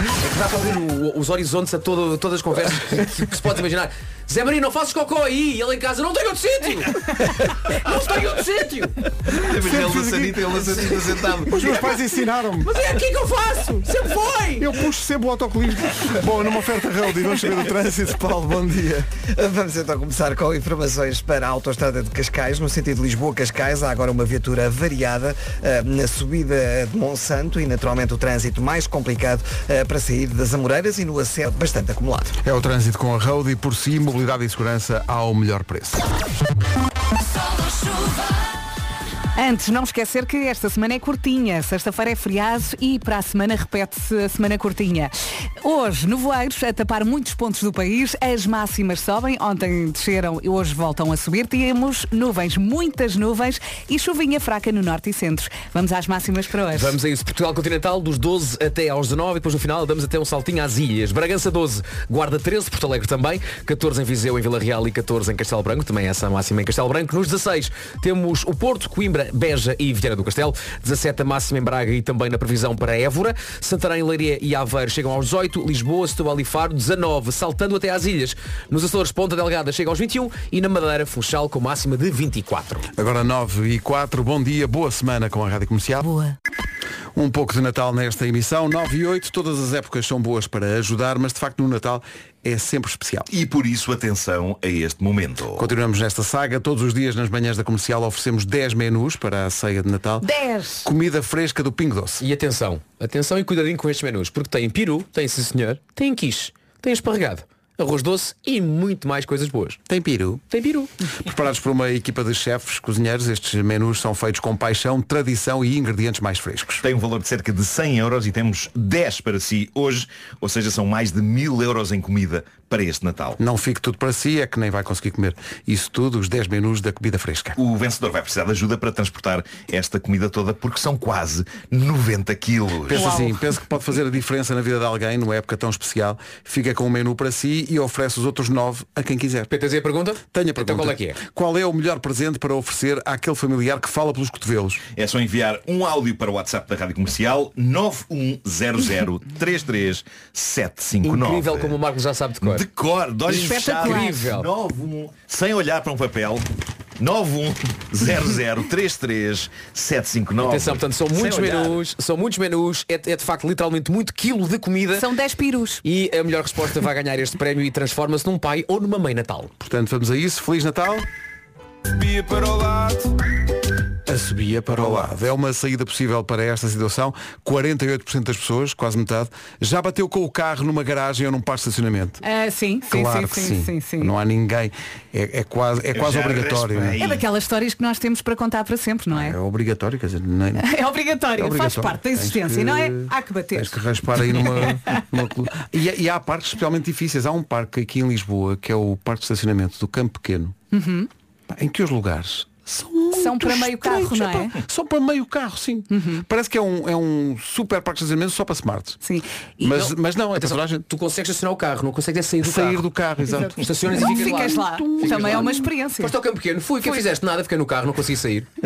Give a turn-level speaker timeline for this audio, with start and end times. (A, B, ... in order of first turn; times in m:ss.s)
0:00.1-0:09.0 A
0:09.3-0:11.8 B
0:09.5-0:12.7 C
0:12.6-0:14.7 A
0:14.6-0:19.1 C
0:19.3-0:32.4 D
0:32.4-0:36.0 C
0:39.4-0:57.0 E
0:56.7-1:22.9 A
1:23.0-1:26.0 C
1:26.0-1:26.3 E
1:27.1-1:33.3 C
1:33.3-1:35.7 B
1:35.6-1:40.3 C
1:40.2-1:40.9 E
1:40.8-1:42.2 C
1:42.2-1:49.8 A
1:49.9-1:50.4 C
1:50.5-1:50.9 A
1:51.2-1:56.8 C
1:56.8-2:03.4 B
2:03.4-2:07.6 C
2:07.6-2:13.1 B
2:12.9-2:19.5 C
2:12.9-2:13.3 E
2:19.5-2:21.2 A
2:20.3-2:24.8 C
2:25.0-2:31.8 B
2:31.0-2:32.6 A
2:32.4-2:36.4 B
2:33.3-2:34.2 E
2:33.3-2:34.5 A
2:37.0-2:41.8 B
2:40.4-2:45.1 A
2:44.9-2:45.8 E
2:45.8-2:49.5 A
2:49.6-2:51.0 C
2:54.0-3:02.2 C
3:02.2-3:04.1 E
3:02.9-3:07.0 C
3:05.9-3:07.2 B
3:07.0-3:09.4 E
3:09.1-3:10.7 C
3:10.6-3:13.8 E
3:11.3-3:20.6 C
3:14.4-3:14.7 E
3:20.7-3:21.1 E
3:21.5-3:29.0 C
3:23.1-3:24.6 E
3:25.9-3:26.2 E
3:29.0-3:29.7 E
3:29.6-3:30.8 C
3:29.7-3:32.8 A
3:32.4-3:35.6 C
3:33.4-3:38.5 A
3:34.0-3:36.1 E